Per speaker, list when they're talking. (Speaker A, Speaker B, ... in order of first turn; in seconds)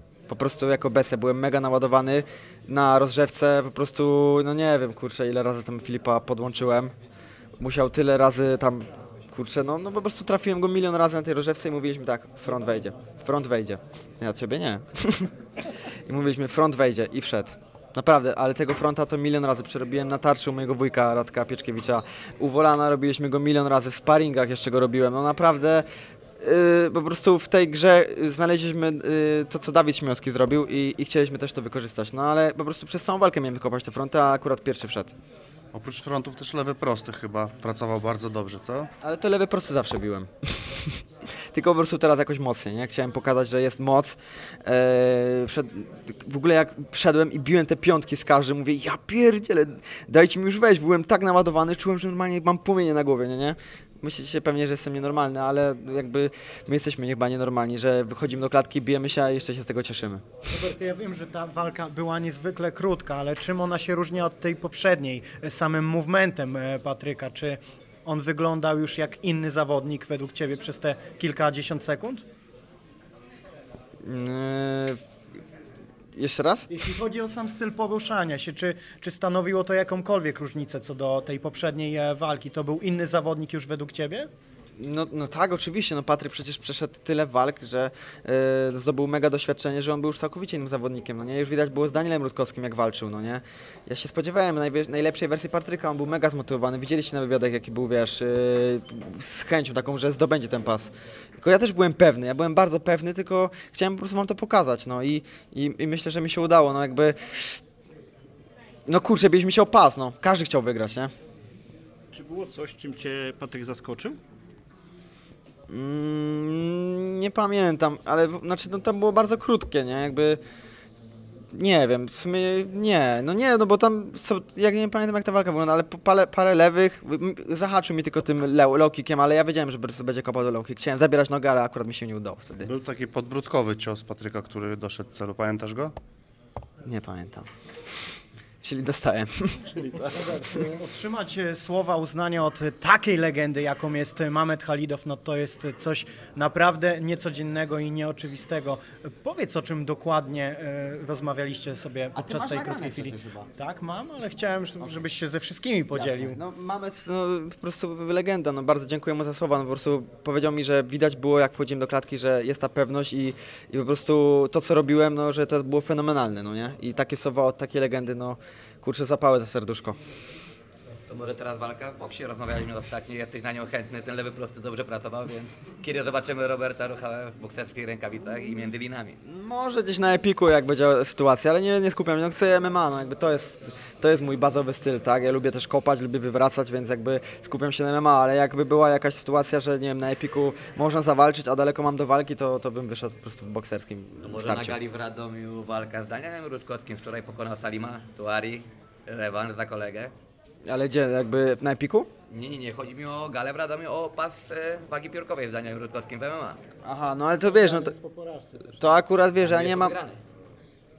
Speaker A: 0.3-6.9, 7.6-25.9, 26.4-35.1, 39.0-60.3, 74.0-75.0, 76.1-76.9, 84.8-107.6, 108.9-111.1, 115.7-120.4, 121.5-132.7, 136.8-140.1, 152.1-153.5, 155.9-170.0, 179.2-194.8, 200.6-202.1, 206.8-207.9, 208.8-210.0
Speaker B: 35.7-38.9, 132.6-135.9
Speaker C: 60.5-72.2, 76.7-84.3, 140.1-156.4, 207.4-208.8
Speaker D: 112.1-114.2
Speaker E: 171.1-179.2, 194.2-200.1, 202.3-206.6, 209.4-210.2